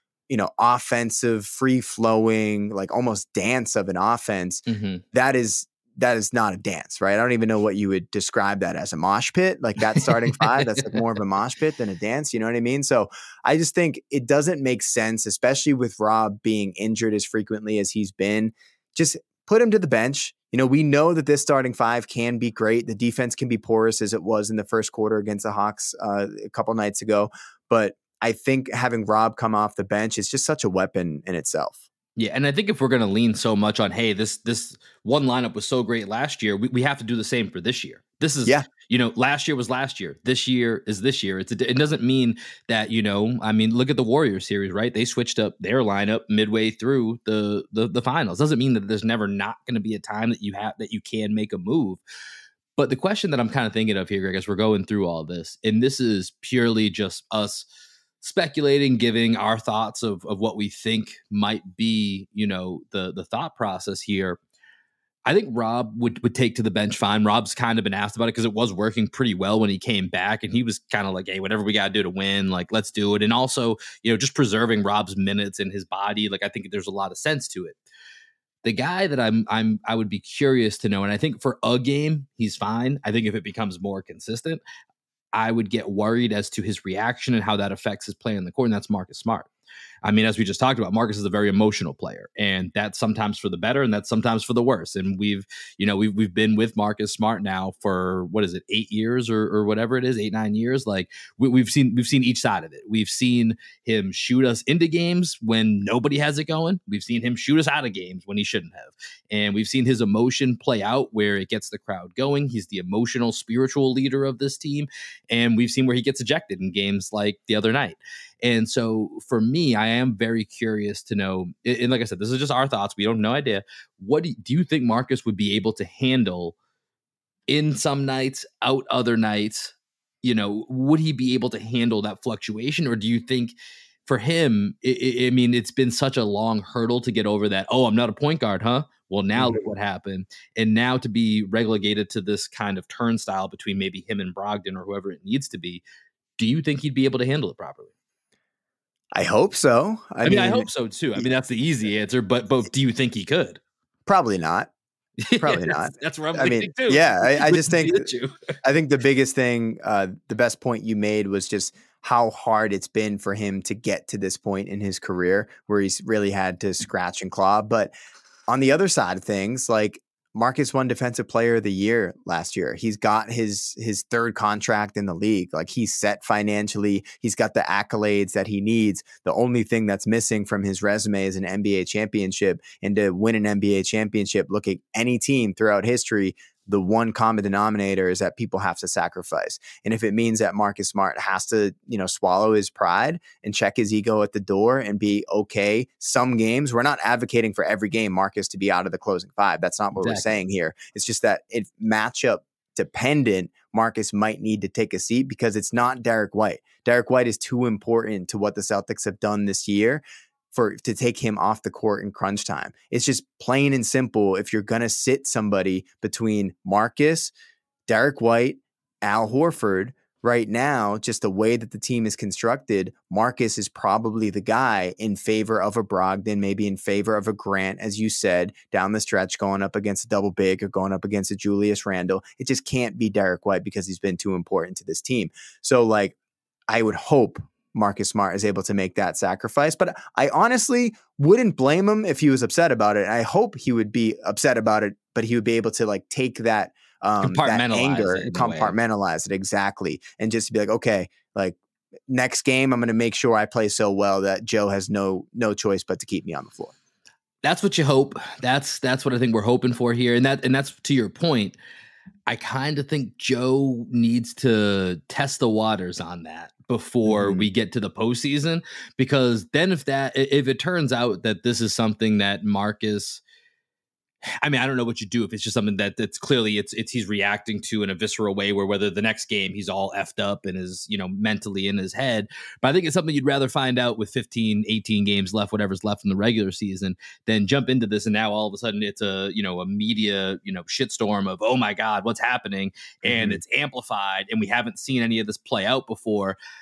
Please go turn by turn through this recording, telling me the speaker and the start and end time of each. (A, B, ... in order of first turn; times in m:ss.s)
0:00.3-0:31.8 A
0:04.7-0:05.0 B
0:09.9-0:11.0 B
0:32.2-0:52.0 B
0:52.8-0:57.7 B
0:58.2-1:04.4 B
1:05.2-1:17.8 B
1:18.6-1:24.6 B
1:25.3-1:29.5 B
1:30.0-2:06.5 B
2:07.5-2:13.5 B
2:14.0-2:25.8 B
2:19.4-2:19.6 A
2:26.4-2:27.9 B
2:29.1-2:31.3 A
2:30.2-2:33.6 B
2:34.0-2:34.7 A
2:35.2-2:38.3 B
2:35.4-2:38.1 A
2:38.6-2:47.9 A
2:48.5-3:37.3 A
3:20.0-3:20.4 B
3:37.9-3:56.2 A
3:56.7-4:16.7 A
4:07.2-4:08.8 B
4:17.4-4:21.6 B
4:22.3-4:33.2 B
4:27.0-4:27.5 A
4:34.4-4:56.4 B
4:53.0-4:53.4 A